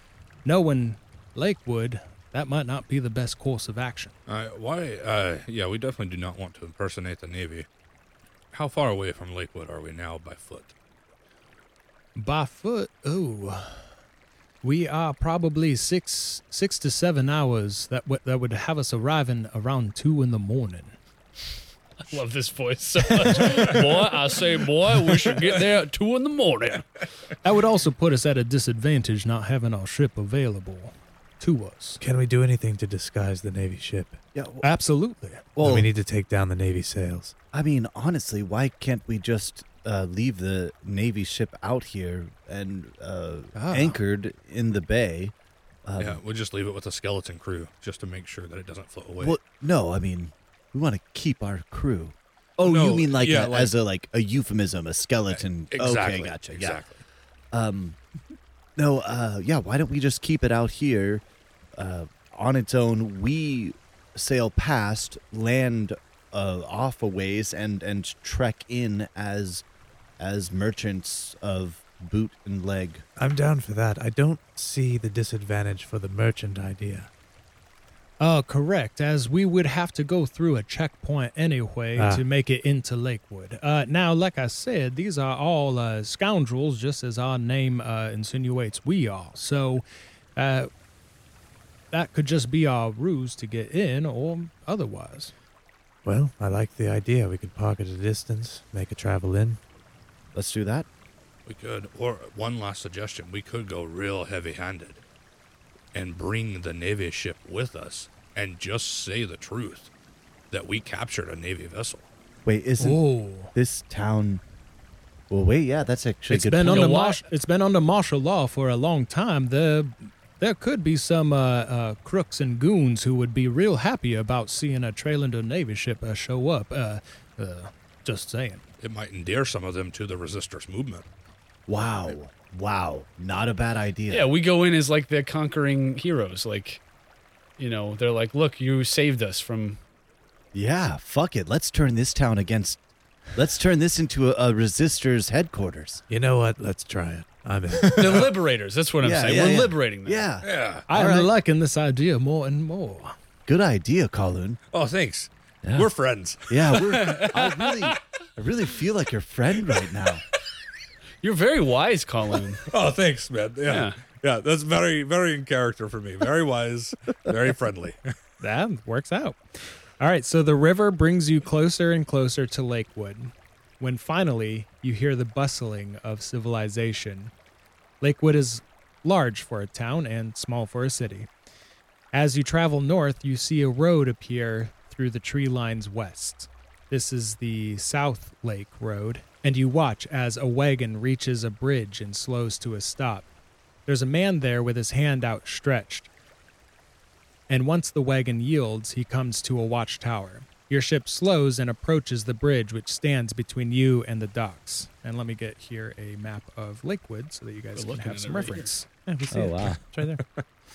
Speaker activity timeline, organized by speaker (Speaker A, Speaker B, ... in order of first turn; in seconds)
Speaker A: 0.5-4.1, 12.2-13.8, 14.6-20.9, 23.4-23.8, 27.4-32.0, 34.6-35.5, 43.6-44.0, 78.2-89.8, 90.4-90.7, 91.9-95.3, 112.8-113.5, 116.3-128.6, 147.8-148.3, 150.9-153.2, 168.4-169.4, 170.0-177.3, 178.0-181.3, 182.1-193.3, 193.9-196.1, 197.5-208.9
Speaker B: 4.3-7.7, 8.5-10.7, 46.0-49.4, 52.6-53.7, 55.3-57.0, 101.5-105.0, 105.9-109.9, 110.5-112.1, 128.8-131.1, 150.4-150.8, 154.7-157.0, 162.7-168.1
Speaker C: 22.1-26.9, 116.7-117.2, 134.1-136.8, 137.6-139.8, 147.9-150.3, 157.0-158.0, 161.2-162.7, 163.7-164.0, 207.8-208.7
Speaker D: 32.0-34.2, 35.6-37.4, 73.2-77.1, 82.0-82.2, 96.0-99.6, 146.1-148.3, 209.1-210.2
Speaker E: 34.3-34.7, 35.6-35.9, 37.5-45.3, 45.9-46.2, 49.2-56.8, 57.5-58.0, 58.8-61.2, 61.8-69.6, 70.2-73.0, 100.3-100.9, 112.5-114.4, 115.3-116.9, 131.7-134.3, 140.5-142.8, 143.3-146.0, 149.0-151.3, 153.5-154.6, 155.6-155.9, 156.5-160.2, 209.3-209.8